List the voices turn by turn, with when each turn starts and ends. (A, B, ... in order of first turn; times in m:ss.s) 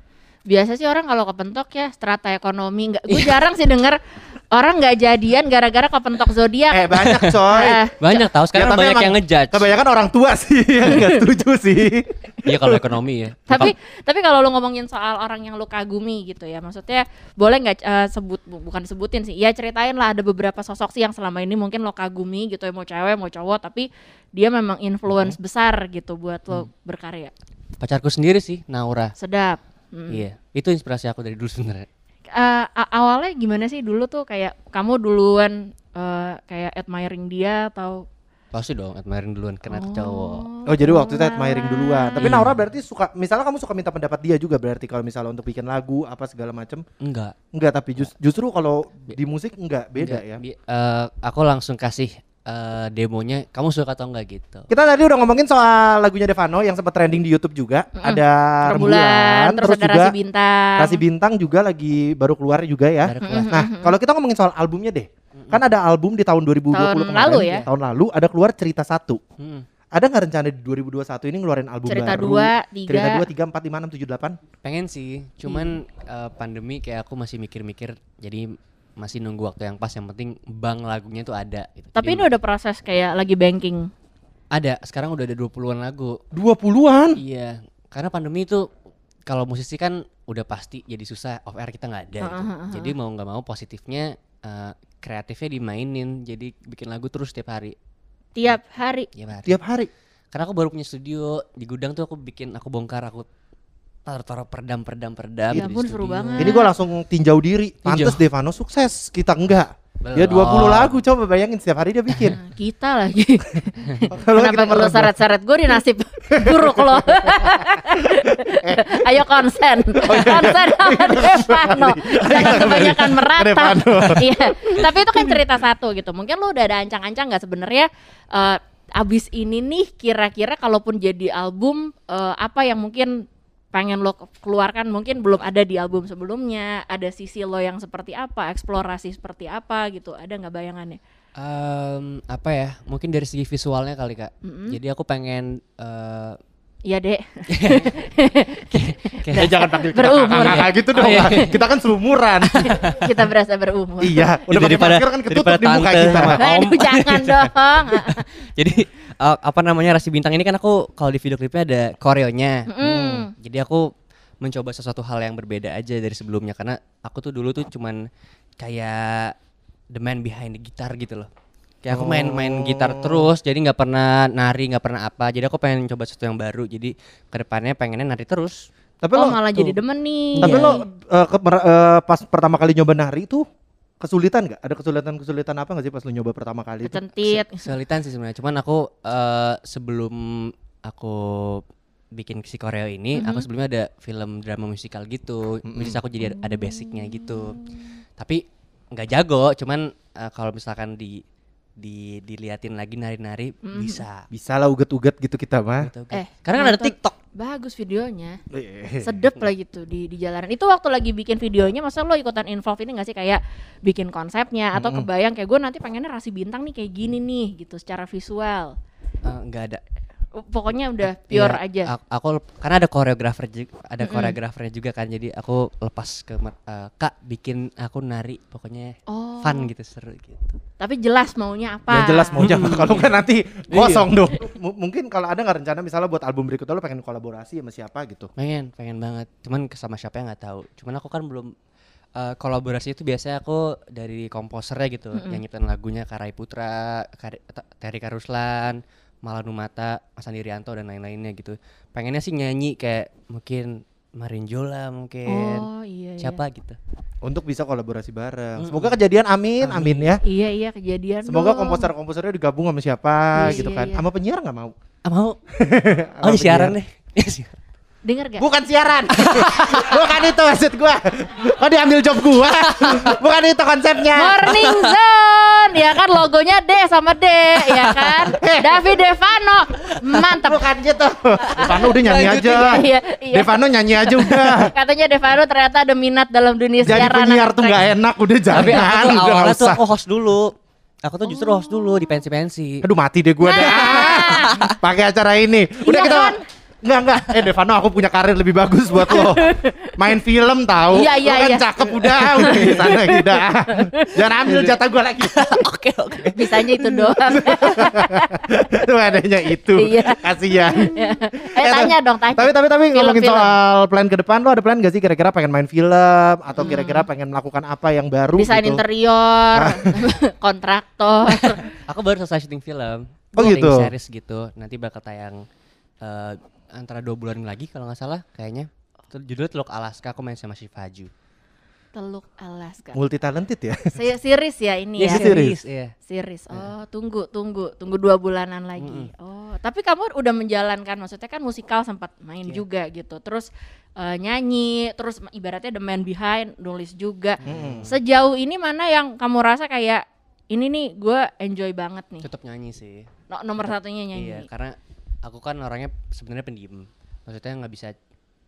0:00.5-0:04.0 A
0:03.1-0:03.4 B
0:04.5-0:08.3 A
0:06.7-0:07.8 C
0:07.0-0:07.4 B
0:08.0-0:09.7 B
0:08.5-0:12.8 C
0:10.8-0:11.2 A
0:12.4-0:13.7 B
0:13.5-0:27.3 A
0:27.8-0:29.1 B
0:29.2-0:30.2 A
0:30.1-0:31.9 B
0:32.3-0:38.0 A
0:38.5-0:40.5 B
0:39.7-0:42.5 A
0:40.6-0:46.8 C
0:42.2-0:42.6 B
0:47.0-0:47.3 B
0:47.5-0:50.4 C
0:50.0-0:54.7 B
0:54.7-1:00.1 C
0:58.0-1:01.0 A
1:00.8-1:09.2 C
1:03.0-1:03.5 B
1:03.2-1:04.0 A
1:05.4-1:05.6 B
1:06.7-1:07.6 A
1:07.3-1:07.7 B
1:09.4-1:09.6 B
1:09.9-1:14.4 C
1:11.9-1:13.2 A
1:14.6-1:18.4 B
1:15.4-1:15.7 A
1:19.0-1:22.2 B
1:21.9-1:23.9 A
1:24.5-1:26.2 B
1:26.3-1:27.2 C
1:27.2-1:28.7 B
1:29.3-1:37.7 B
1:32.2-1:32.9 A
1:38.4-1:39.1 A
1:39.1-1:39.6 B
1:39.4-1:39.9 C
1:40.3-1:43.3 B
1:44.0-1:46.6 B
1:45.5-1:46.7 A
1:46.4-1:52.4 C
1:47.8-1:48.2 B
1:50.0-1:51.0 B
1:52.2-2:13.2 A
1:54.1-1:55.1 C
1:56.3-1:59.0 C
2:00.0-2:05.4 C
2:13.7-2:21.0 A
2:21.4-2:26.4 B
2:24.4-2:24.8 A
2:26.8-2:31.2 A
2:27.5-2:27.9 B
2:28.7-2:29.5 B
2:29.3-2:32.7 C
2:30.3-2:31.6 B
2:32.5-2:33.1 B
2:32.6-2:34.3 A
2:34.0-2:36.4 C
2:34.5-2:42.7 B
2:36.1-2:38.2 A
2:42.7-2:43.3 A
2:42.8-2:43.3 C
2:43.4-2:43.9 B
2:44.4-2:48.0 B
2:48.6-2:49.3 B
2:49.9-2:51.3 B
2:51.8-2:58.7 B
2:51.9-2:53.3 C
2:59.0-2:59.4 C
2:59.1-3:00.8 A
3:00.4-3:00.8 B
3:00.4-3:03.4 C
3:04.0-3:07.0 C
3:06.8-3:07.7 A
3:07.5-3:11.6 B
3:12.1-3:17.6 B
3:13.1-3:13.5 A
3:15.6-3:16.0 C
3:18.2-3:21.2 B
3:21.8-3:24.2 B
3:23.6-3:24.0 A
3:24.3-3:25.9 C
3:25.8-3:27.1 B
3:26.1-3:28.4 A
3:28.5-3:29.2 C
3:29.0-3:38.7 A
3:34.7-3:35.1 C
3:39.2-3:39.8 B
3:40.3-3:41.9 A
3:41.0-3:50.6 B
3:44.0-3:44.4 A
3:49.1-3:49.7 A
3:50.8-3:52.5 A
3:51.9-3:58.3 C
3:52.4-3:53.1 B
3:53.7-3:54.1 B
3:58.4-4:01.5 B
4:02.2-4:15.7 B
4:05.1-4:05.4 A
4:15.3-4:16.4 A
4:16.2-4:16.8 B
4:17.2-4:20.2 C
4:18.6-4:18.9 B
4:19.6-4:20.2 B
4:20.2-4:21.9 A
4:21.2-4:24.7 C
4:23.4-4:24.0 A
4:25.0-4:25.4 B
4:25.6-4:26.8 C
4:26.2-4:27.5 B
4:28.0-4:28.4 A
4:28.4-4:34.6 C
4:29.2-4:30.0 B
4:32.7-4:33.1 B
4:34.1-4:40.7 A
4:34.5-4:34.9 B
4:37.6-4:38.3 B
4:38.4-4:38.8 C
4:40.4-4:44.7 C
4:41.5-4:42.8 B
4:41.6-4:47.9 A
4:46.8-4:49.8 C
4:48.5-4:52.8 B
4:48.6-4:48.9 A
4:51.3-4:52.1 A
4:52.8-5:05.6 C
4:53.4-4:54.7 A
4:53.6-4:54.7 B
4:55.8-4:56.4 A
4:59.0-5:00.1 A
5:00.9-5:04.7 A
5:02.4-5:02.9 B
5:05.4-5:06.6 B
5:05.4-5:08.4 A
5:07.3-5:18.8 C
5:09.8-5:10.2 A
5:10.7-5:13.5 A
5:16.6-5:17.1 A
5:18.3-5:21.7 A
5:19.5-5:20.0 C
5:21.3-5:21.6 C
5:21.9-5:25.4 B
5:23.4-5:23.9 C
5:26.0-5:31.1 B
5:31.9-5:33.0 A
5:32.9-5:34.0 C
5:33.9-5:35.4 A
5:35.0-5:35.9 B
5:35.0-5:35.6 C
5:36.0-5:52.3 A
5:38.8-5:39.1 B
5:47.4-5:47.9 B
5:47.4-5:47.8 C
5:52.2-5:53.1 B
5:53.3-5:54.5 A
5:54.1-5:57.9 B